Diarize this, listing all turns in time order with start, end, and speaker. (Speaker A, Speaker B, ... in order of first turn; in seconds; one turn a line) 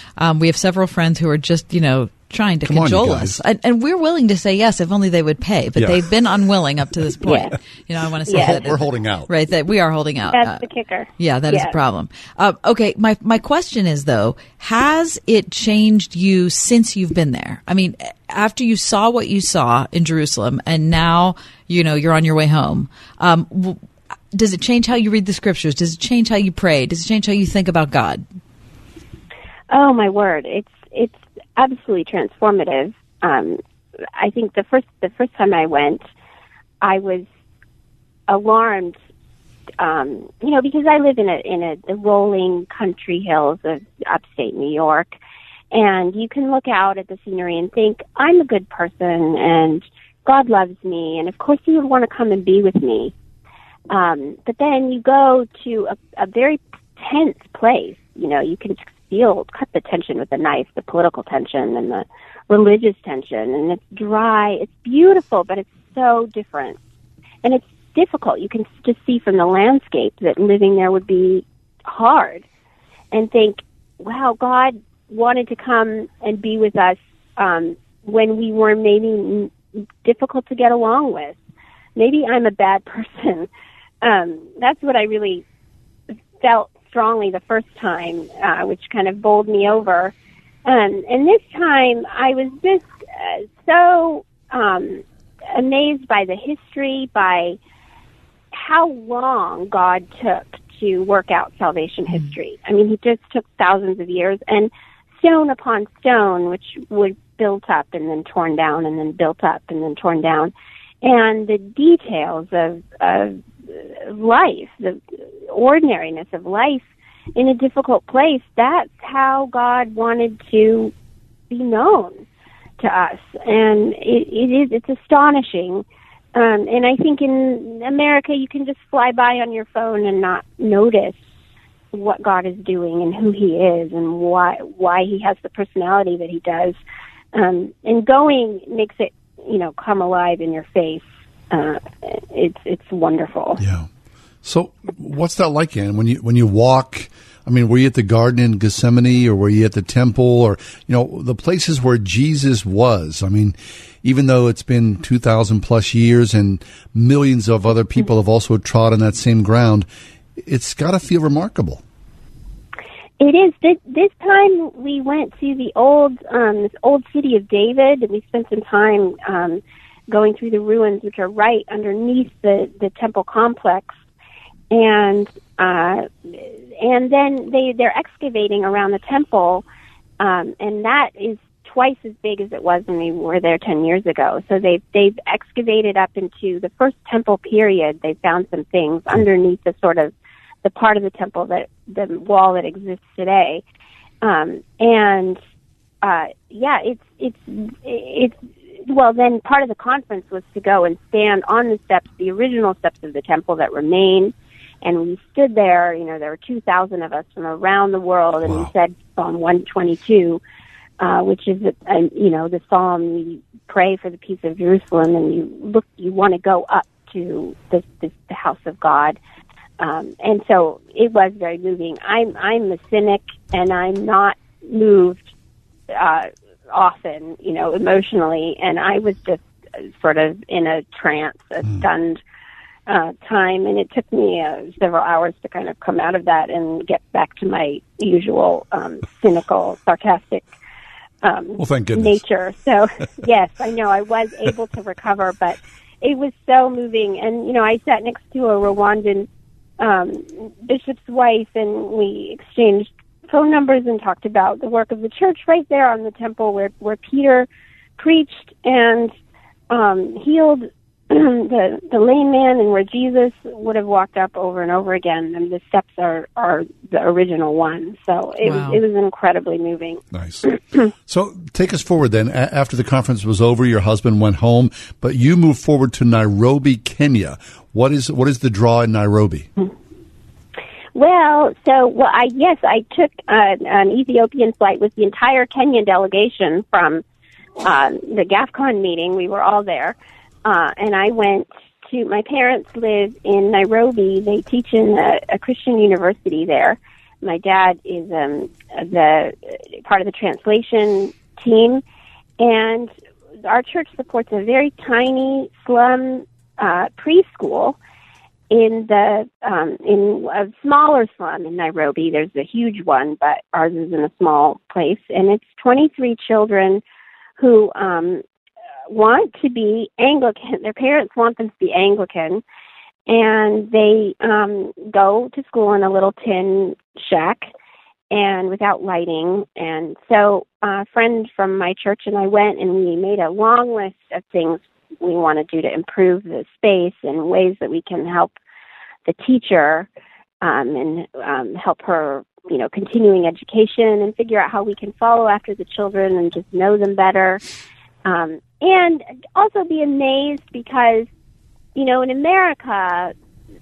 Speaker A: 0.2-10.7
Speaker B: 2.6-3.4
Speaker B: 5.8-6.0
Speaker C: 7.2-7.5
Speaker C: 8.3-8.6
Speaker B: 8.3-9.3
Speaker C: 10.3-11.8
Speaker A: 11.2-23.8
Speaker A: 24.3-28.2
Speaker C: 29.7-33.6
Speaker C: 34.2-36.0
Speaker C: 36.8-37.3
Speaker C: 38.3-39.0
Speaker C: 39.8-45.1
Speaker C: 45.7-53.1
Speaker C: 53.9-66.8
Speaker C: 67.4-72.5
Speaker C: 73.1-81.4
Speaker C: 82.0-83.5
Speaker C: 84.0-85.4
Speaker C: 86.4-90.1
Speaker C: 90.7-97.6
Speaker C: 98.5-110.5
Speaker C: 111.0-120.9
Speaker C: 121.5-122.2
Speaker C: 122.8-125.8
Speaker C: 126.3-131.2
Speaker C: 131.9-136.8
Speaker C: 137.3-143.6
Speaker B: 143.6-143.9
Speaker B: 144.4-159.9
Speaker B: 160.4-161.8
Speaker C: 163.2-174.0
Speaker C: 174.7-179.7
Speaker C: 180.2-190.1
Speaker C: 190.6-193.6
Speaker C: 194.2-195.4
Speaker C: 196.0-210.4
Speaker B: 208.4-208.7
Speaker C: 211.0-219.2
Speaker C: 219.8-225.3
Speaker C: 225.9-232.2
Speaker C: 232.9-240.5
Speaker C: 241.2-249.3
Speaker B: 241.6-242.2
Speaker C: 249.8-259.1
Speaker C: 259.7-270.6
Speaker A: 268.4-268.8
Speaker B: 270.1-270.5
Speaker B: 271.1-279.5
Speaker C: 280.9-287.0
Speaker C: 287.6-301.8
Speaker C: 302.4-302.9
Speaker C: 303.4-307.8
Speaker C: 308.5-316.8
Speaker C: 317.4-318.2
Speaker C: 318.9-322.4
Speaker C: 323.1-327.5
Speaker C: 328.1-338.3
Speaker C: 339.1-339.9
Speaker C: 340.4-347.4
Speaker C: 348.1-351.1
Speaker C: 351.8-353.1